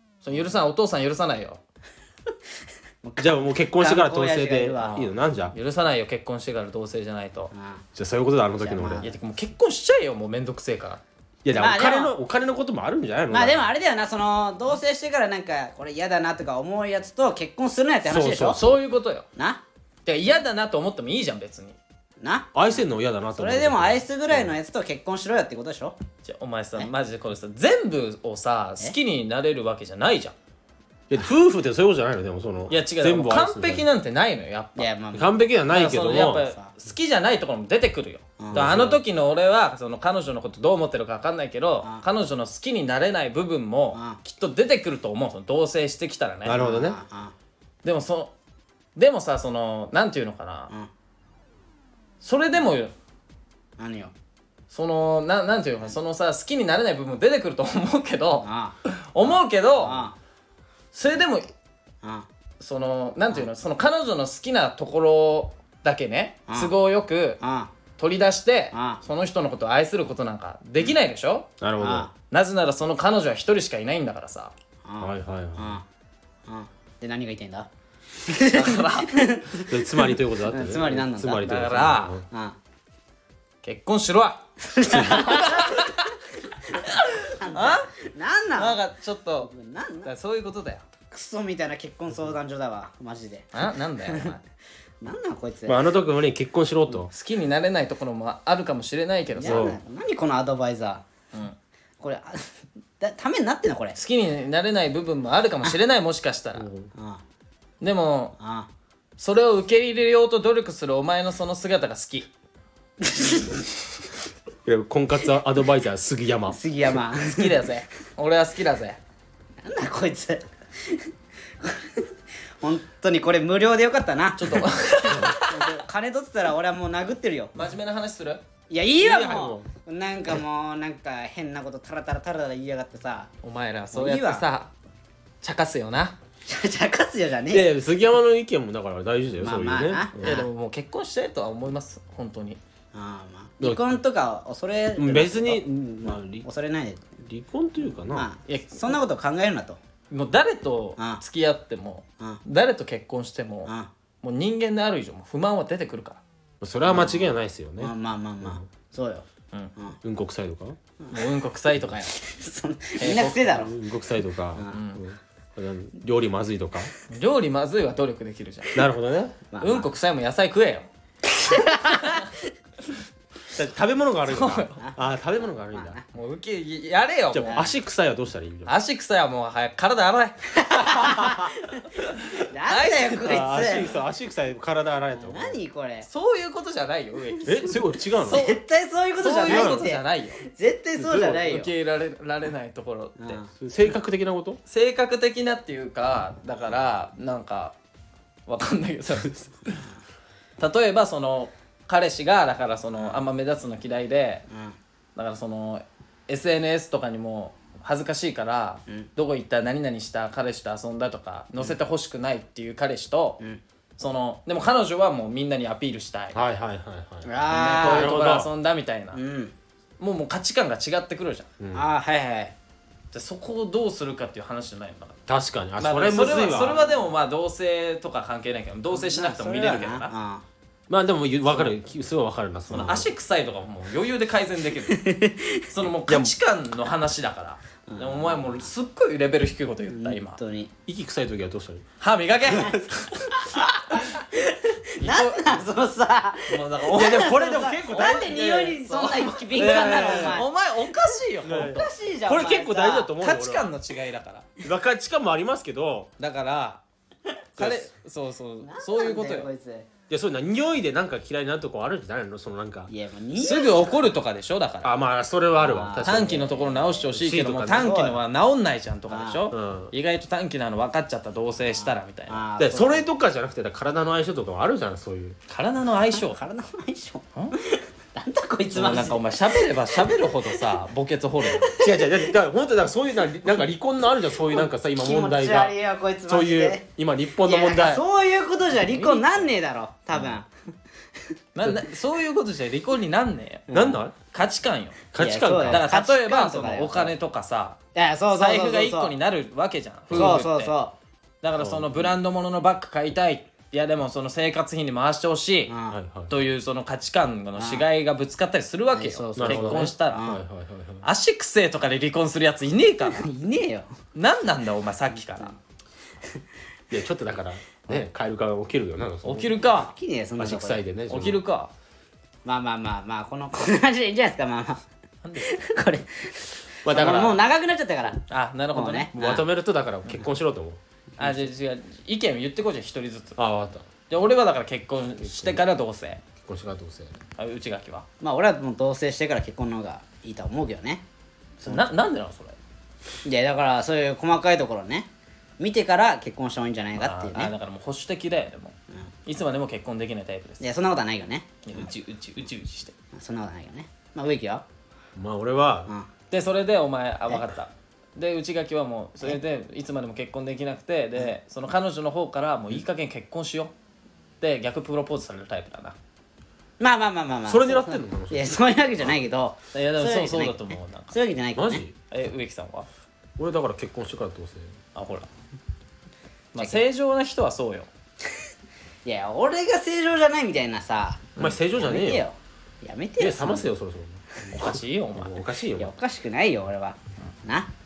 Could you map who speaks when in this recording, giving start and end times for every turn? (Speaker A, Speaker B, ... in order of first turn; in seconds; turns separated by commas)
Speaker A: 0.2-1.6, Speaker B: 3.0-5.0, Speaker C: 3.2-5.5, Speaker A: 4.8-7.5, Speaker B: 7.5-7.8, Speaker C: 8.0-9.1, Speaker B: 8.6-9.2, Speaker A: 9.0-11.0, Speaker C: 11.4-13.7, Speaker B: 11.5-12.2, Speaker B: 13.3-18.6, Speaker C: 18.1-18.8, Speaker A: 18.5-19.2, Speaker B: 19.4-19.6, Speaker A: 20.1-21.8, Speaker B: 22.2-25.9, Speaker C: 22.5-24.5, Speaker A: 26.2-30.3, Speaker C: 31.1-33.9, Speaker A: 32.7-34.9, Speaker B: 34.8-35.5, Speaker C: 35.1-36.5, Speaker A: 35.7-46.6, Speaker B: 36.4-36.7, Speaker B: 38.4-38.8, Speaker C: 38.5-39.0, Speaker B: 43.9-44.2, Speaker C: 46.4-47.0, Speaker B: 46.5-47.3, Speaker A: 47.8-48.3, Speaker A: 49.0-50.7, Speaker A: 52.2-52.9, Speaker B: 53.8-54.1, Speaker A: 54.7-60.1, Speaker B: 58.4-60.1, Speaker A: 60.9-61.5, Speaker B: 62.0-62.3, Speaker A: 62.6-67.4, Speaker B: 66.5-66.7, Speaker B: 67.4-67.7, Speaker A: 68.0-71.5, Speaker B: 68.7-69.0, Speaker C: 71.6-72.1, Speaker B: 71.8-72.1, Speaker A: 72.3-74.5, Speaker B: 74.8-75.8, Speaker C: 75.0-75.8, Speaker B: 76.5-77.7, Speaker B: 78.2-81.6, Speaker A: 78.5-79.2, Speaker C: 79.6-82.2, Speaker A: 81.4-82.2, Speaker B: 82.3-82.6, Speaker A: 83.6-86.1, Speaker B: 84.6-85.9, Speaker B: 86.4-88.8, Speaker A: 86.7-87.9, Speaker A: 88.5-89.5, Speaker B: 89.4-90.1, Speaker A: 90.0-90.8, Speaker B: 91.1-93.5, Speaker A: 93.5-94.4, Speaker B: 94.0-94.3, Speaker B: 95.0-95.8, Speaker C: 95.7-97.1, Speaker A: 97.1-99.8, Speaker B: 99.3-101.0, Speaker C: 99.4-99.8, Speaker B: 102.0-104.0, Speaker A: 104.0-106.7, Speaker C: 106.6-106.9, Speaker B: 106.9-107.2, Speaker A: 107.8-108.3, Speaker B: 108.4-108.7, Speaker A: 109.2-112.3, Speaker B: 113.0-113.6, Speaker C: 114.6-116.6, Speaker B: 116.5-117.7, Speaker A: 117.2-119.0, Speaker B: 119.6-127.5, Speaker A: 124.3-125.6, Speaker A: 127.5-128.4, Speaker B: 128.7-133.3, Speaker C: 129.0-129.7, Speaker A: 133.4-134.7, Speaker B: 133.9-134.4, Speaker A: 135.4-136.2, Speaker B: 136.4-137.7, Speaker C: 137.5-140.4, Speaker B: 139.4-140.4, Speaker A: 140.2-142.6, Speaker B: 142.9-147.0, Speaker C: 143.6-144.0, Speaker C: 144.9-146.4, Speaker C: 147.2-148.3, Speaker B: 147.9-149.8, Speaker A: 148.5-149.0, Speaker A: 150.1-156.2, Speaker C: 156.6-158.6, Speaker B: 156.8-160.0, Speaker C: 160.0-160.8, Speaker A: 161.1-162.2, Speaker B: 161.9-163.7, Speaker A: 163.0-163.6, Speaker C: 163.5-166.9, Speaker B: 164.5-164.8, Speaker A: 164.7-165.0, Speaker A: 167.1-168.8, Speaker C: 168.7-169.4, Speaker B: 169.5-169.9, Speaker A: 169.6-170.9, Speaker B: 171.3-172.3, Speaker A: 171.6-172.3, Speaker C: 173.5-176.0, Speaker A: 174.3-174.8, Speaker B: 174.8-176.0, Speaker A: 176.1-177.6, Speaker C: 177.3-178.7, Speaker A: 178.7-181.4, Speaker B: 180.5-181.9, Speaker A: 182.3-183.4, Speaker B: 182.4-183.9, Speaker C: 183.2-185.6, Speaker B: 185.1-186.1, Speaker A: 186.0-188.6, Speaker B: 187.3-191.7, Speaker C: 187.4-188.4, Speaker A: 189.2-190.4, Speaker C: 189.4-189.8, Speaker C: 191.0-191.5, Speaker A: 191.3-193.4, Speaker B: 193.2-193.5, Speaker C: 193.6-194.6, Speaker A: 194.7-197.7, Speaker A: 198.5-199.8, Speaker A: 200.6-204.4, Speaker B: 202.9-203.2, Speaker B: 204.5-204.8, Speaker A: 205.2-213.4, Speaker A: 214.0-216.4, Speaker C: 216.3-218.5, Speaker B: 217.2-218.2, Speaker A: 217.5-219.2, Speaker B: 219.1-219.5, Speaker A: 220.0-221.5, Speaker C: 221.6-221.9, Speaker B: 221.7-222.5, Speaker A: 223.1-225.2, Speaker C: 225.3-226.8, Speaker A: 225.8-230.1, Speaker B: 226.1-227.1, Speaker B: 228.9-230.4, Speaker C: 230.9-233.1, Speaker B: 232.7-233.0, Speaker A: 232.7-240.4, Speaker B: 234.9-235.6, Speaker C: 236.1-236.3, Speaker B: 237.9-238.7, Speaker B: 239.9-240.7, Speaker C: 240.8-241.8, Speaker A: 242.0-244.2, Speaker B: 242.5-250.5, Speaker A: 245.0-245.6, Speaker A: 246.5-251.9, Speaker C: 246.9-248.8, Speaker C: 249.5-250.4, Speaker C: 251.4-253.7, Speaker B: 251.6-253.1, Speaker A: 253.2-254.5, Speaker C: 254.6-256.1, Speaker A: 256.2-256.8, Speaker A: 257.6-259.5, Speaker C: 257.6-257.9, Speaker B: 258.6-259.9, Speaker C: 260.1-262.9, Speaker B: 262.9-264.1, Speaker A: 263.4-264.9, Speaker C: 264.8-266.4, Speaker B: 265.6-267.1, Speaker A: 266.0-272.4, Speaker C: 267.1-267.9, Speaker B: 267.7-268.2, Speaker B: 269.1-269.5, Speaker C: 269.5-269.9, Speaker B: 271.7-273.1, Speaker C: 272.6-275.4, Speaker A: 275.5-276.4, Speaker B: 276.1-280.6, Speaker A: 278.7-281.7, Speaker B: 281.4-282.3, Speaker C: 281.7-285.7, Speaker B: 284.4-286.8, Speaker C: 286.3-288.0, Speaker B: 287.4-290.5, Speaker A: 288.8-289.4, Speaker A: 291.6-293.7, Speaker B: 293.7-294.0, Speaker C: 293.7-294.1, Speaker A: 294.3-295.0, Speaker C: 295.1-295.9, Speaker B: 295.2-297.1, Speaker A: 295.7-297.8, Speaker B: 297.9-299.1, Speaker A: 298.3-300.8, Speaker C: 300.1-300.4, Speaker B: 300.1-300.9, Speaker A: 301.4-305.7, Speaker C: 301.6-302.0, Speaker B: 305.7-306.0, Speaker C: 305.9-306.3, Speaker A: 306.3-310.3, Speaker B: 307.6-307.9, Speaker B: 308.9-310.4, Speaker C: 309.4-311.0, Speaker A: 311.0-313.3, Speaker B: 313.0-313.9, Speaker A: 314.1-315.6, Speaker C: 316.9-319.5, Speaker A: 319.2-319.9, Speaker B: 319.6-320.8, Speaker C: 320.4-321.4, Speaker A: 321.1-321.7, Speaker B: 322.4-324.8, Speaker A: 325.2-325.5, Speaker B: 325.4-329.4, Speaker C: 326.8-327.4, Speaker A: 328.3-329.4, Speaker C: 329.1-330.8, Speaker A: 331.2-333.4, Speaker C: 333.4-333.9, Speaker A: 334.1-336.2, Speaker C: 335.2-335.6, Speaker C: 336.4-337.2, Speaker A: 337.4-338.1, Speaker B: 338.2-341.0, Speaker A: 341.6-342.6, Speaker B: 343.2-347.5, Speaker A: 347.0-350.6, Speaker B: 350.6-351.9, Speaker A: 351.6-352.9, Speaker B: 353.1-354.6, Speaker C: 355.1-355.9, Speaker A: 356.3-363.7, Speaker A: 364.4-365.9, Speaker B: 366.8-371.8, Speaker C: 367.5-368.5, Speaker A: 369.7-371.1, Speaker C: 371.6-371.9, Speaker A: 372.1-372.9, Speaker C: 373.4-374.8, Speaker A: 374.9-375.3, Speaker A: 376.5-377.9, Speaker B: 379.0-383.7, Speaker C: 381.4-382.3, Speaker C: 383.2-384.4, Speaker A: 384.5-385.4, Speaker C: 385.1-385.9, Speaker B: 385.8-387.7